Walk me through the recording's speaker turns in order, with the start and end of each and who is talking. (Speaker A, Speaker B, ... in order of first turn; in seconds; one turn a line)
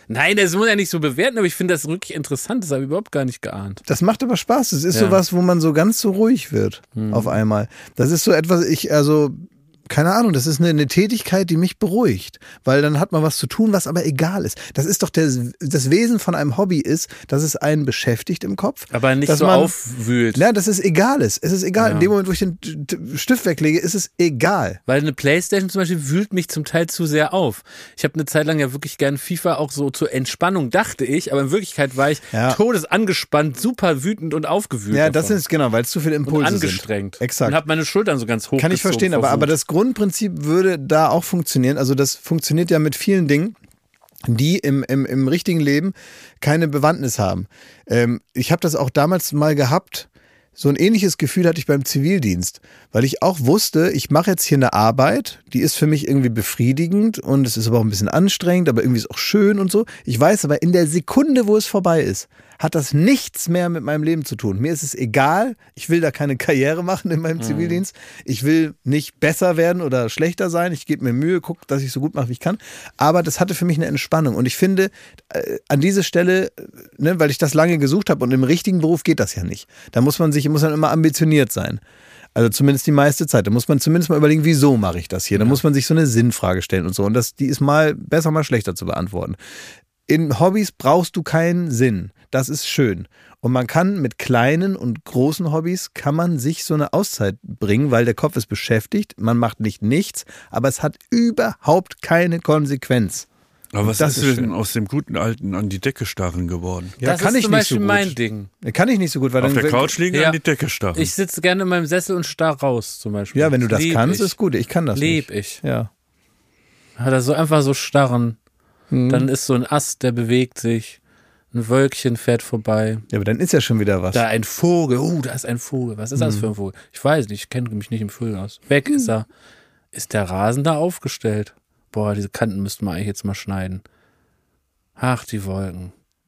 Speaker A: 0.1-3.8
Speaker B: 3.9-19.7
Speaker A: 4.9-5.2
Speaker A: 7.0-7.3
Speaker A: 18.9-20.4
Speaker B: 20.4-24.8
Speaker A: 21.8-22.1
Speaker A: 24.9-35.4
Speaker B: 32.3-32.6
Speaker B: 34.9-37.6
Speaker A: 36.2-39.5
Speaker B: 38.6-43.6
Speaker B: 44.3-81.8
Speaker A: 67.4-67.8
Speaker B: 82.3-89.4
Speaker B: 90.1-103.3
Speaker C: 103.7-107.0
Speaker B: 103.8-104.5
Speaker B: 107.0-110.0
Speaker A: 107.0-108.5
Speaker C: 109.4-111.1
Speaker A: 110.1-110.4
Speaker A: 110.9-114.3
Speaker B: 113.3-115.9
Speaker A: 114.9-115.6
Speaker A: 117.0-118.4
Speaker B: 118.9-119.3
Speaker A: 119.1-121.0
Speaker A: 121.5-123.0
Speaker B: 123.1-124.2
Speaker A: 124.1-129.3
Speaker B: 126.2-126.5
Speaker A: 129.9-133.8
Speaker A: 135.0-135.9